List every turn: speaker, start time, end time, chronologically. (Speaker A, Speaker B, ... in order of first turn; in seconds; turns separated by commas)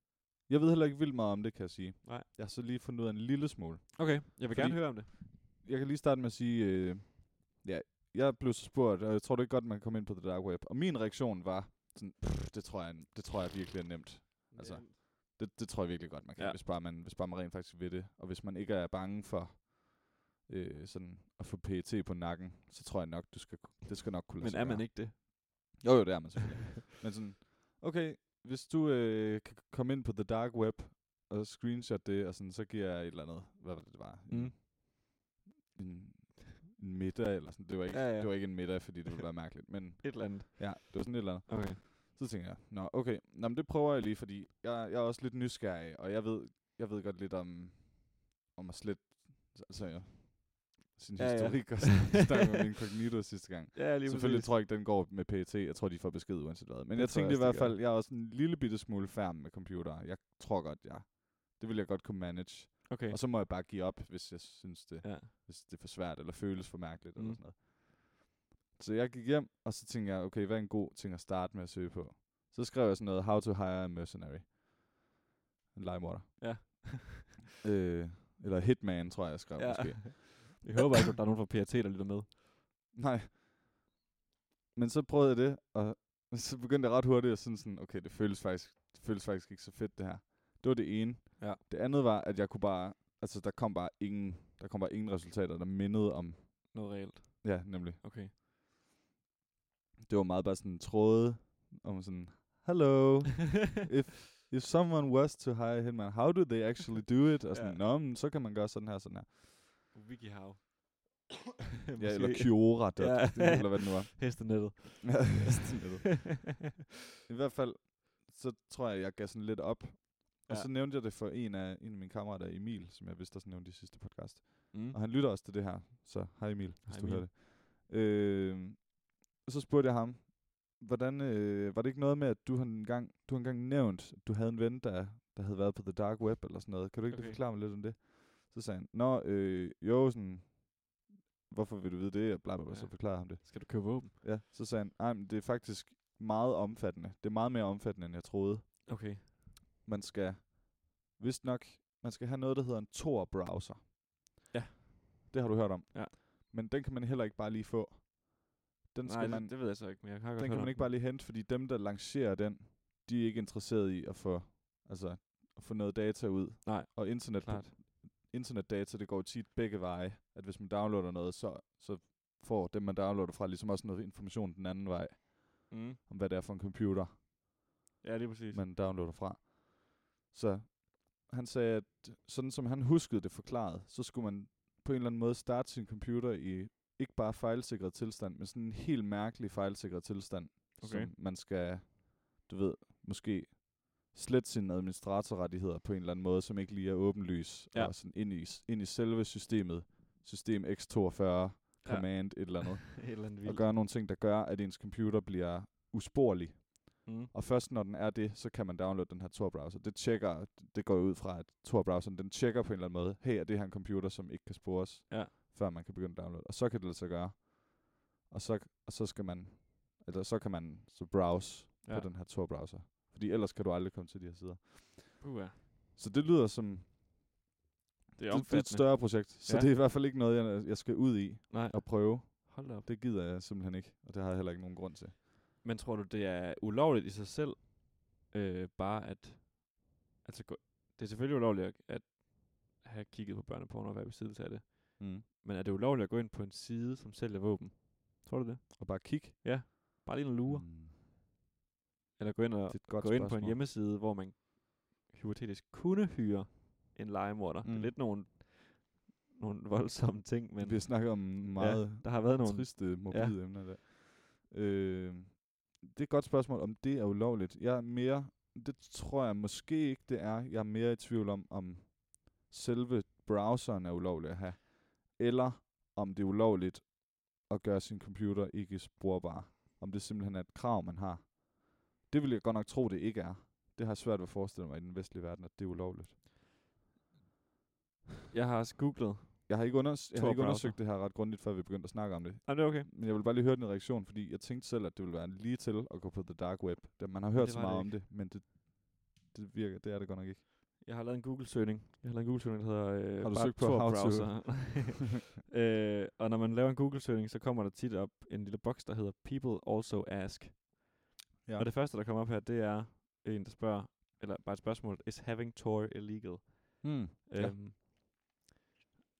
Speaker A: 0.5-25.2, Speaker B: 4.0-5.1, Speaker B: 14.5-15.0, Speaker B: 24.4-25.8, Speaker A: 25.8-68.2, Speaker B: 34.3-34.5, Speaker B: 37.9-39.1, Speaker B: 40.0-41.8, Speaker B: 51.2-52.6, Speaker B: 53.7-54.5, Speaker B: 56.9-57.8, Speaker B: 62.9-63.2, Speaker B: 65.0-65.3, Speaker B: 67.2-67.4, Speaker A: 68.8-75.0, Speaker A: 75.7-76.9, Speaker B: 76.4-77.4, Speaker A: 77.6-80.8, Speaker B: 79.5-82.3, Speaker A: 82.9-83.4, Speaker A: 84.7-98.0, Speaker B: 96.7-98.3, Speaker A: 100.1-109.4, Speaker B: 107.5-107.8, Speaker B: 109.9-111.3, Speaker B: 111.9-116.3, Speaker A: 112.0-116.6, Speaker A: 117.3-149.3, Speaker B: 124.7-125.0, Speaker B: 126.9-127.2, Speaker B: 137.1-137.4, Speaker B: 142.7-144.2, Speaker B: 148.9-149.3, Speaker A: 149.8-154.4, Speaker B: 154.5-155.3, Speaker A: 155.3-177.2, Speaker B: 159.0-160.9, Speaker B: 166.6-167.7, Speaker B: 175.7-176.0, Speaker B: 178.0-178.6, Speaker A: 178.5-225.3, Speaker B: 190.8-191.1, Speaker B: 201.8-203.6, Speaker B: 207.0-207.3, Speaker B: 221.8-222.1, Speaker B: 225.2-225.6, Speaker A: 225.9-226.9, Speaker B: 228.2-229.7, Speaker A: 228.3-235.1, Speaker B: 231.5-232.8, Speaker B: 235.6-250.7, Speaker A: 245.0-245.2, Speaker A: 248.8-250.9, Speaker B: 252.2-263.4, Speaker A: 252.7-253.6, Speaker A: 257.6-257.9, Speaker A: 260.6-286.2, Speaker B: 288.3-290.8, Speaker A: 289.5-300.4, Speaker B: 292.4-292.9, Speaker B: 297.3-298.0, Speaker B: 300.8-311.0, Speaker A: 303.2-304.9, Speaker B: 311.6-317.8, Speaker A: 316.8-317.6